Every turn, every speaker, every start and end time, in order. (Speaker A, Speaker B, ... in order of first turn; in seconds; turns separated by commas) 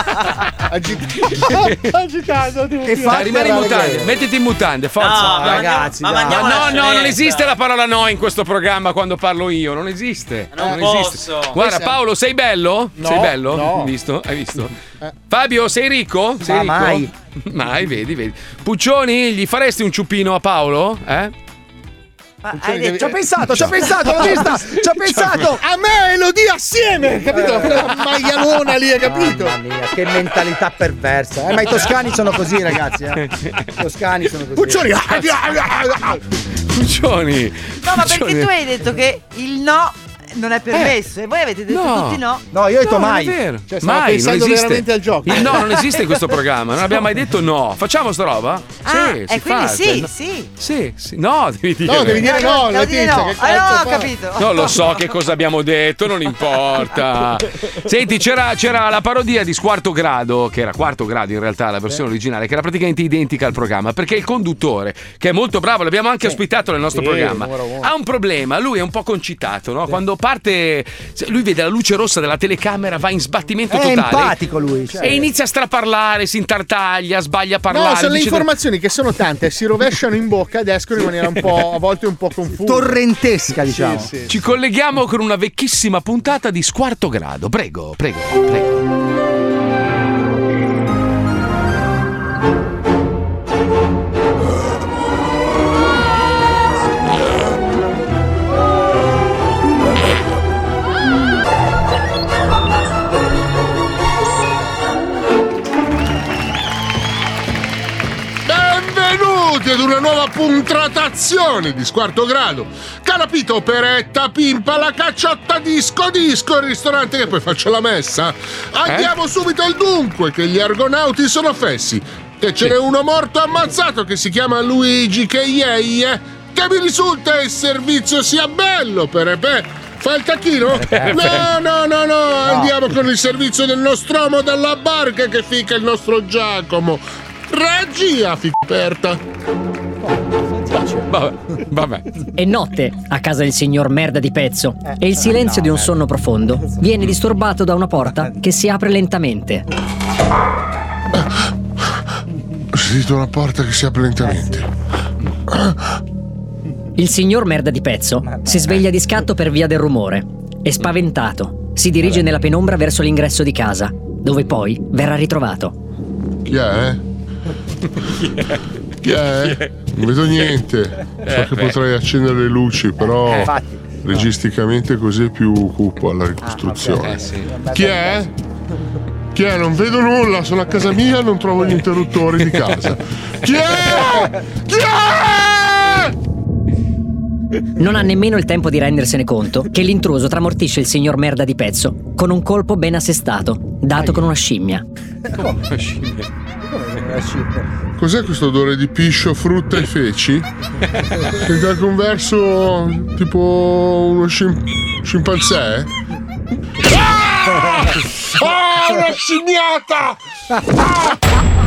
Speaker A: 0.7-3.7, Speaker B: 1.4-1.7, Speaker C: 2.8-4.2, Speaker B: 3.0-14.7, Speaker C: 5.0-6.9, Speaker A: 10.6-10.9, Speaker A: 11.6-11.9, Speaker A: 13.0-13.9, Speaker B: 15.3-21.3, Speaker C: 16.4-17.1, Speaker D: 22.4-23.1, Speaker A: 22.6-23.2, Speaker C: 22.8-25.6, Speaker A: 24.0-24.5, Speaker B: 25.1-25.4, Speaker A: 25.5-29.6, Speaker C: 27.3-27.9, Speaker C: 29.0-35.0, Speaker A: 34.6-36.2, Speaker B: 36.7-38.5, Speaker D: 37.8-42.4, Speaker B: 41.7-42.2, Speaker C: 42.5-43.4, Speaker B: 42.8-52.3, Speaker A: 43.7-45.7, Speaker D: 48.8-50.5, Speaker A: 51.8-54.1, Speaker D: 52.0-55.0, Speaker B: 54.4-74.4, Speaker A: 66.9-67.9, Speaker C: 73.7-75.2, Speaker B: 75.0-78.5, Speaker A: 77.7-83.0, Speaker C: 82.6-84.1, Speaker A: 83.6-84.3, Speaker B: 84.3-88.7, Speaker E: 108.4-139.2, Speaker B: 118.8-119.1, Speaker C: 130.8-131.2, Speaker B: 130.9-131.4, Speaker C: 140.1-141.0, Speaker B: 141.1-142.1, Speaker F: 142.3-149.6, Speaker C: 145.2-145.9, Speaker E: 152.7-154.7, Speaker E: 155.5-155.8, Speaker F: 157.0-165.7, Speaker C: 158.3-158.6, Speaker E: 166.4-167.0, Speaker B: 168.1-168.6, Speaker E: 169.0-178.3, Speaker B: 171.2-171.8, Speaker C: 173.3-174.0, Speaker C: 176.5-178.3, Speaker B: 177.0-177.5, Speaker E: 179.3-186.1, Speaker B: 182.7-182.9, Speaker F: 187.8-194.8, Speaker B: 195.4-196.2, Speaker C: 196.7-197.7, Speaker E: 198.0-200.5, Speaker E: 201.4-205.9, Speaker E: 206.8-210.2